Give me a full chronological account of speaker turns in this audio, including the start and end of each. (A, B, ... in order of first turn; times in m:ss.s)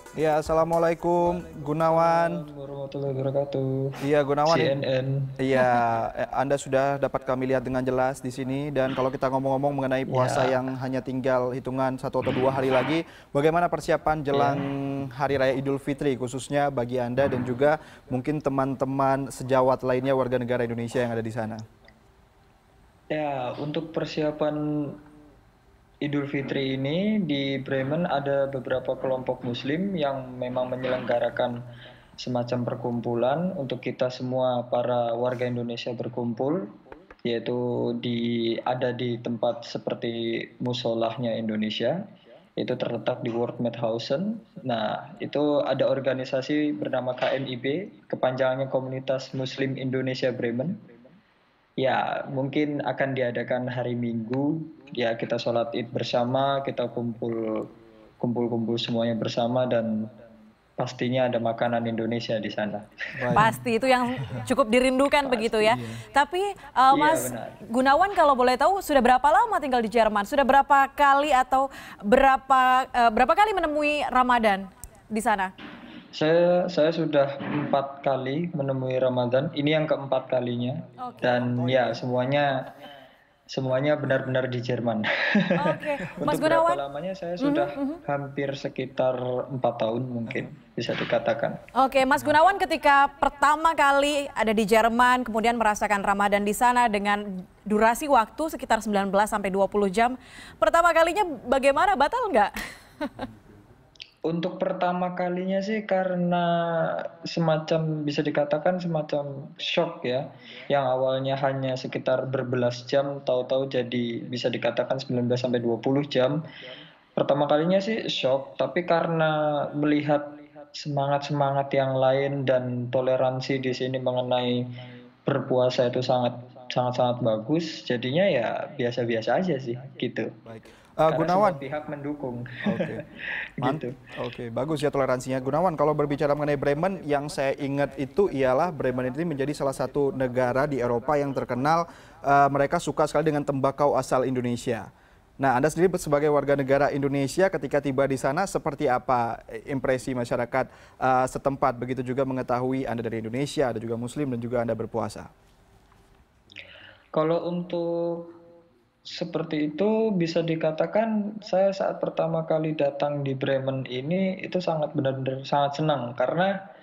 0:00.2-0:02.4 A
0:01.8-0:05.4 B
0:04.0-0:04.8 A
0:05.4-0:21.6 A
0:10.1-0:10.6 B
0:14.3-0:14.6 B
0:23.1-0:25.0 B
0:26.0-0:31.6 B
0:32.2-0:36.7 B
0:37.2-0:42.0 B
0:42.6-0:50.8 B
0:51.8-1:00.1 B
1:00.8-1:03.4 B
1:03.2-1:03.6 A
1:03.3-1:15.5 C
1:05.3-1:05.7 B
1:05.7-1:06.0 A
1:06.9-1:07.6 B
1:16.1-1:22.7 B
1:21.0-1:21.3 C
1:21.2-1:22.0 A
1:23.5-1:31.6 B
1:25.6-1:26.8 C
1:27.4-1:28.0 C
1:31.7-1:43.2 C
1:44.3-1:56.4 B
1:57.2-2:10.3 B
2:10.4-2:11.6 A
2:11.1-2:13.0 B
2:12.6-2:13.0 A
2:13.6-2:14.0 B
2:13.6-2:35.3 A
2:37.1-2:38.3 B
2:39.1-2:46.5 B